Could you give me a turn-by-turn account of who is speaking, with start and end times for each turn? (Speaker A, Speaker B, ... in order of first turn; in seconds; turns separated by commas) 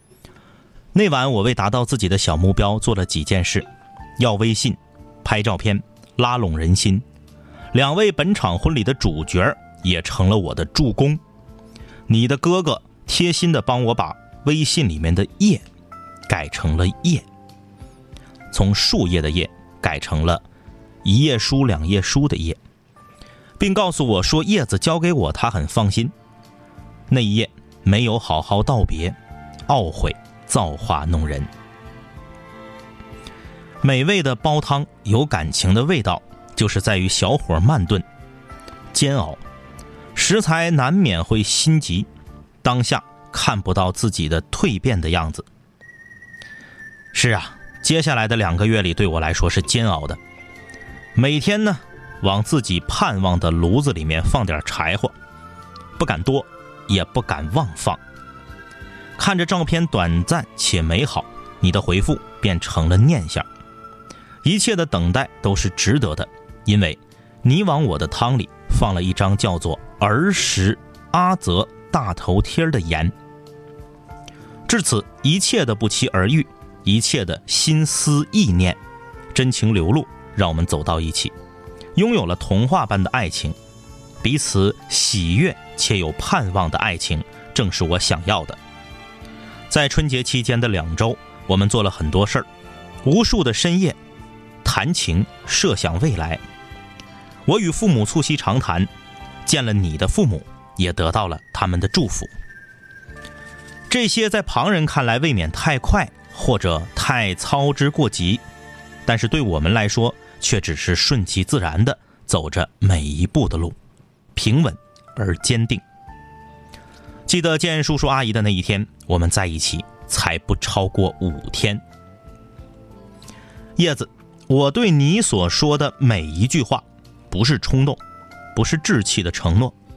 Speaker A: 0.9-7.0, Speaker A: 7.7-11.2, Speaker A: 12.1-15.6, Speaker A: 16.3-17.2, Speaker A: 18.5-20.4, Speaker A: 21.0-22.6, Speaker A: 23.6-26.1, Speaker A: 27.1-31.5, Speaker A: 33.8-38.0, Speaker A: 38.9-39.4, Speaker A: 40.1-42.1, Speaker A: 42.6-45.5, Speaker A: 47.1-50.2, Speaker A: 51.1-55.1, Speaker A: 56.0-58.0, Speaker A: 59.2-63.5, Speaker A: 64.4-73.1, Speaker A: 74.7-78.8, Speaker A: 79.3-81.3, Speaker A: 81.9-83.5, Speaker A: 84.2-88.6, Speaker A: 89.7-92.5, Speaker A: 93.0-94.0, Speaker A: 94.6-96.4, Speaker A: 97.5-98.9, Speaker A: 99.4-102.3, Speaker A: 103.9-108.4, Speaker A: 109.0-113.8, Speaker A: 114.3-115.8, Speaker A: 117.3-121.8, Speaker A: 123.8-128.0, Speaker A: 128.5-129.8